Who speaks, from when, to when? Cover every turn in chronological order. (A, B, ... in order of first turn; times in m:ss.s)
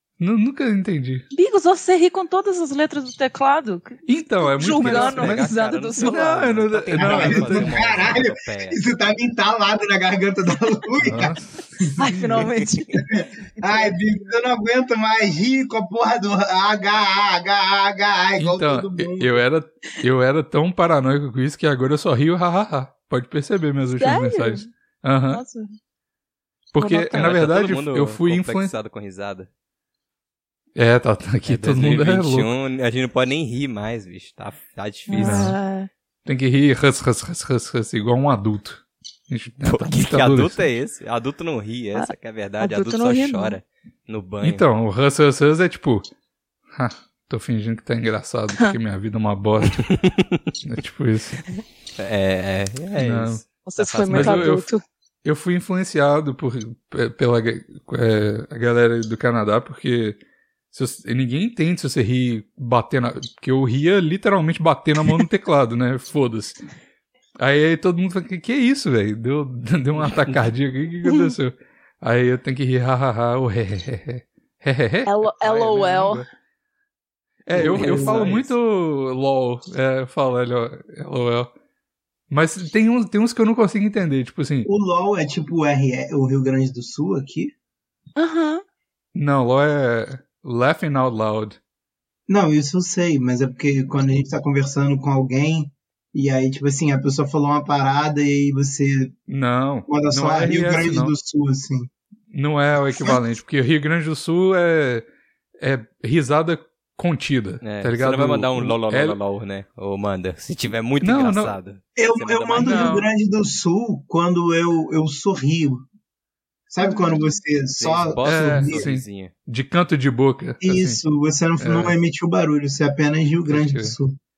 0:00.2-0:01.3 A
0:01.3-0:06.3 B
0:04.1-0:08.0 A
0:04.7-0:08.8 C
0:07.0-0:12.0 D
0:11.0-0:12.5 A
0:12.0-0:14.0 B
0:13.0-0:19.4 D
0:18.4-0:25.4 A
0:23.9-0:24.7 B
0:25.3-0:25.8 B
0:26.7-0:28.7 A
0:26.8-0:27.4 B
0:27.1-0:29.5 C
0:30.8-0:32.5 A
0:31.5-0:35.5 C
0:35.1-0:35.9 B
0:35.1-0:35.6 A
0:36.3-0:40.7 A
0:39.6-0:44.6 C
0:42.0-0:43.6 B
0:44.4-0:46.1 A
0:46.7-0:49.9 A
0:49.8-0:50.5 C
0:50.6-0:51.4 A
0:52.0-0:54.5 C
0:53.0-0:53.4 A
0:53.6-0:54.8 B
0:54.1-0:54.7 A
0:55.2-1:00.2 A
1:00.7-1:06.6 A
1:07.4-1:16.3 A
1:15.1-1:16.2 B
1:17.5-1:21.5 A
1:17.5-1:18.4 D
1:17.6-1:18.5 C
1:22.3-1:24.7 A
1:24.6-1:27.5 D
1:28.2-1:28.6 B
1:29.2-1:31.6 A
1:32.3-1:39.1 D
1:39.3-1:41.1 A
1:39.9-1:41.9 D
1:42.3-1:45.0 A
1:42.9-1:43.2 D
1:45.6-1:49.2 A
1:47.6-1:52.9 C
1:51.0-1:51.6 A
1:52.0-1:55.8 D
1:52.5-1:53.1 A
1:56.7-1:58.9 D
1:56.8-1:57.3 B
1:57.8-1:59.3 C
1:58.2-2:01.0 A
2:00.6-2:04.2 D
2:01.6-2:01.9 A
2:03.5-2:03.9 A